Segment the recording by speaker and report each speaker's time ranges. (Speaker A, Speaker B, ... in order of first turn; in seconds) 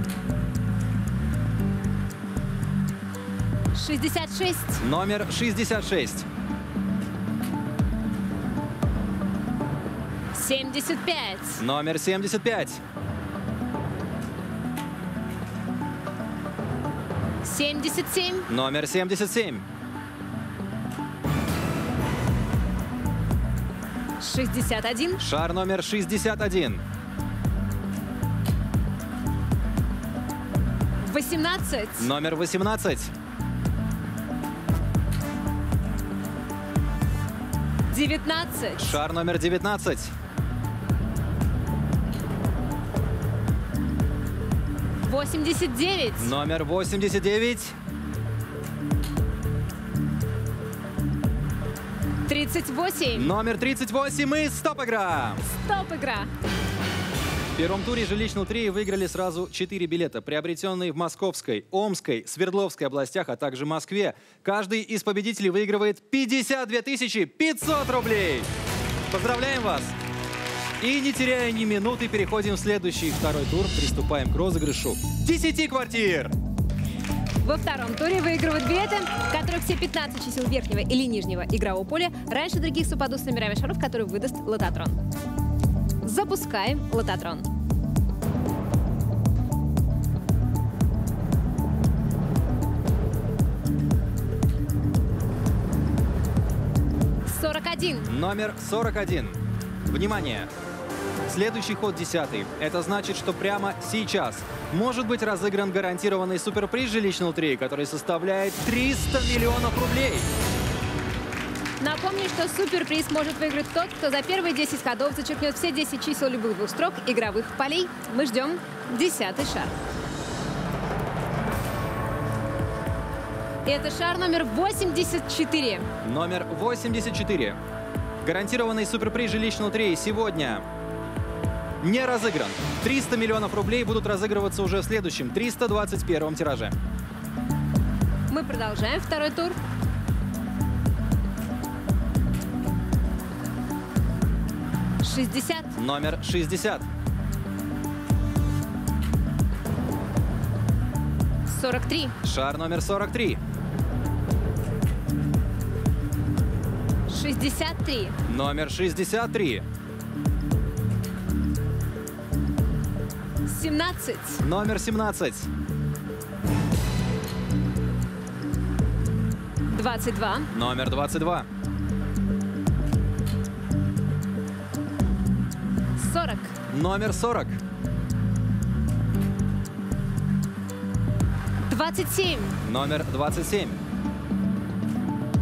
Speaker A: 3.8-4.8, 10.3-11.6, 17.4-18.5, 24.2-25.2, 31.0-32.1, 37.9-39.0, 45.0-46.3, 52.3-53.3, 55.5-56.3, 77.4-85.0, 86.0-87.5, 97.3-98.1, 111.8-119.8, 123.7-125.9, 138.3-139.6, 145.0-145.7, 151.5-152.1, 157.1-158.2, 163.5-164.4, 169.7-170.5, 176.0-176.5, 181.7-182.6
Speaker B: 4.8-6.2, 11.6-12.8, 18.5-19.7, 25.2-26.8, 32.0-33.1, 38.8-40.1, 46.2-47.7, 53.2-55.4, 57.6-68.5, 69.1-70.0, 70.8-76.3, 98.1-100.5, 101.3-110.3, 126.0-127.6, 128.2-130.6, 131.8-136.8, 145.8-146.8, 152.2-153.4, 158.3-159.6, 164.4-165.5, 170.5-171.5, 176.7-177.6, 182.6-183.8